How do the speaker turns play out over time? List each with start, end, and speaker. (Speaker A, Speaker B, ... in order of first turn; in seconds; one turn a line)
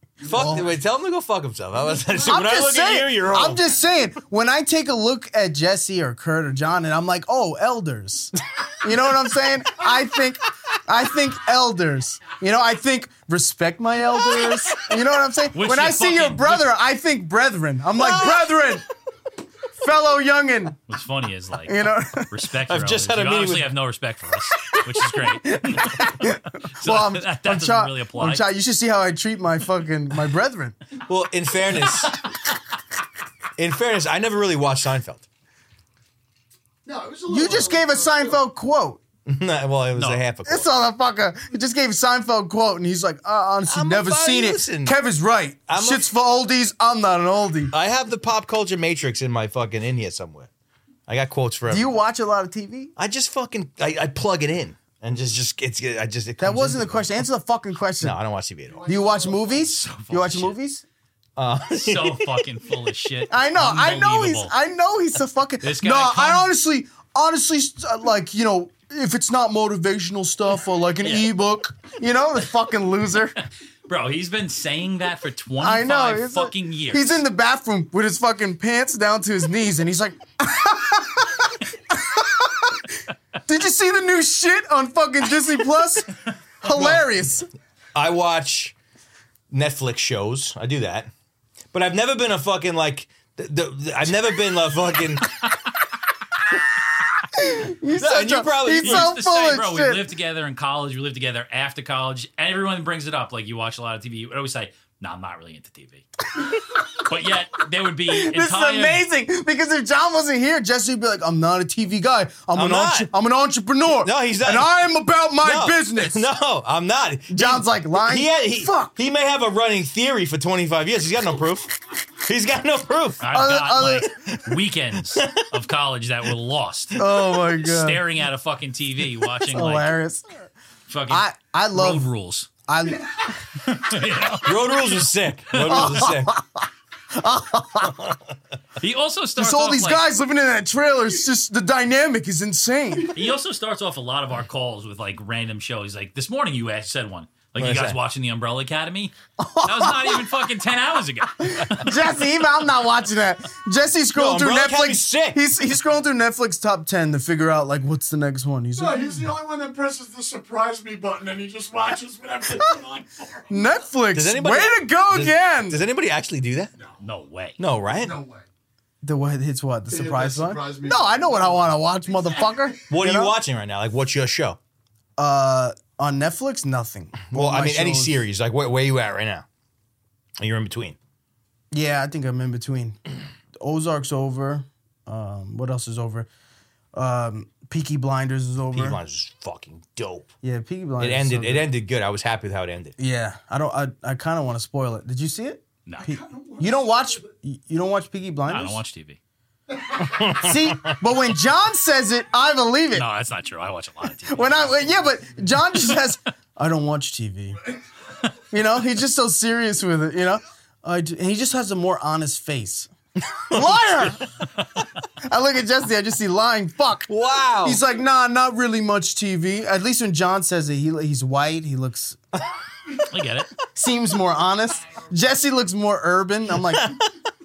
Speaker A: 0.2-0.8
Speaker B: 0.2-3.6
Speaker C: 0.3-0.7
Speaker A: 1.9-2.2
Speaker C: 2.3-18.9
Speaker D: 15.5-16.7
Speaker B: 18.0-18.4
Speaker C: 19.8-20.8
Speaker D: 20.9-28.4
Speaker C: 21.6-22.3
Speaker B: 22.7-23.7
Speaker C: 24.7-30.8
Speaker B: 31.0-32.2
Speaker B: 33.6-35.3
Speaker A: 36.9-38.4
Speaker C: 37.3-39.0
Speaker B: 39.3-40.7
Speaker D: 40.0-40.2
Speaker C: 40.5-47.7
Speaker B: 43.7-45.0
Speaker B: 45.7-46.1
Speaker B: 47.7-50.5
Speaker B: 51.1-51.9
Speaker C: 51.7-52.9
Speaker B: 53.0-57.2
Speaker C: 56.4-58.2
Speaker B: 58.0-58.9
Speaker A: 58.7-59.7
Speaker C: 58.9-60.8
Speaker D: 59.5-60.6
Speaker B: 61.4-62.4
Speaker D: 61.7-64.5
Speaker C: 63.3-73.4
Speaker D: 65.6-66.5
Speaker D: 71.0-71.3
Speaker D: 73.9-77.2
Speaker C: 75.6-87.5
Speaker B: 86.7-87.0
Speaker B: 88.0-88.8
Speaker B: 89.5-91.1
Speaker B: 91.7-95.3
Speaker C: 97.3-100.1
Speaker B: 97.9-99.1
Speaker D: 98.8-106.1
Speaker D: 106.9-109.0
Speaker C: 108.1-116.3
Speaker B: 112.5-113.1
Speaker B: 114.0-114.7
Speaker B: 115.4-123.3
Speaker C: 117.3-118.9
Speaker D: 123.2-130.0
Speaker C: 123.3-124.1
Speaker B: 124.1-124.5
Speaker B: 125.1-125.5
Speaker C: 127.0-128.0
Speaker C: 129.4-130.5
Speaker D: 130.9-132.5
Speaker C: 131.1-132.1
Speaker C: 132.7-133.4
Speaker D: 133.6-134.6
Speaker B: 134.4-136.4
Speaker D: 135.5-135.9
Speaker C: 135.6-138.2
Speaker D: 138.8-140.1
Speaker C: 139.4-143.1
Speaker D: 143.1-152.1
Speaker B: 147.6-148.0
Speaker C: 149.4-150.4
Speaker C: 151.4-159.3
Speaker B: 154.1-155.4
Speaker A: 158.8-163.7
Speaker C: 163.5-165.8
Speaker B: 164.1-166.7
Speaker A: 166.8-167.0
Speaker D: 167.0-167.6
Speaker B: 167.6-168.2
Speaker A: 167.9-168.5
Speaker C: 169.0-173.4
Speaker A: 169.9-172.8
Speaker B: 172.9-174.6
Speaker C: 175.2-178.2
Speaker B: 177.3-179.4
Speaker B: 180.4-181.0
Speaker C: 181.7-183.0
Speaker C: 183.6-186.3
Speaker C: 186.9-189.0
Speaker B: 188.7-190.3
Speaker C: 190.4-191.7
Speaker B: 191.0-192.9
Speaker C: 193.0-198.8
Speaker D: 195.9-196.1
Speaker A: 196.0-197.3
Speaker D: 198.5-199.2
Speaker A: 199.7-200.4
Speaker B: 200.0-201.0
Speaker C: 200.3-203.1
Speaker D: 202.9-204.8
Speaker C: 204.3-207.6
Speaker A: 204.7-205.5
Speaker C: 208.5-212.9
Speaker B: 213.3-214.1
Speaker C: 213.5-214.2
Speaker C: 215.2-217.1
Speaker B: 217.1-217.8
Speaker C: 217.6-222.2
Speaker D: 223.0-223.5
Speaker C: 223.7-227.0
Speaker B: 226.7-227.1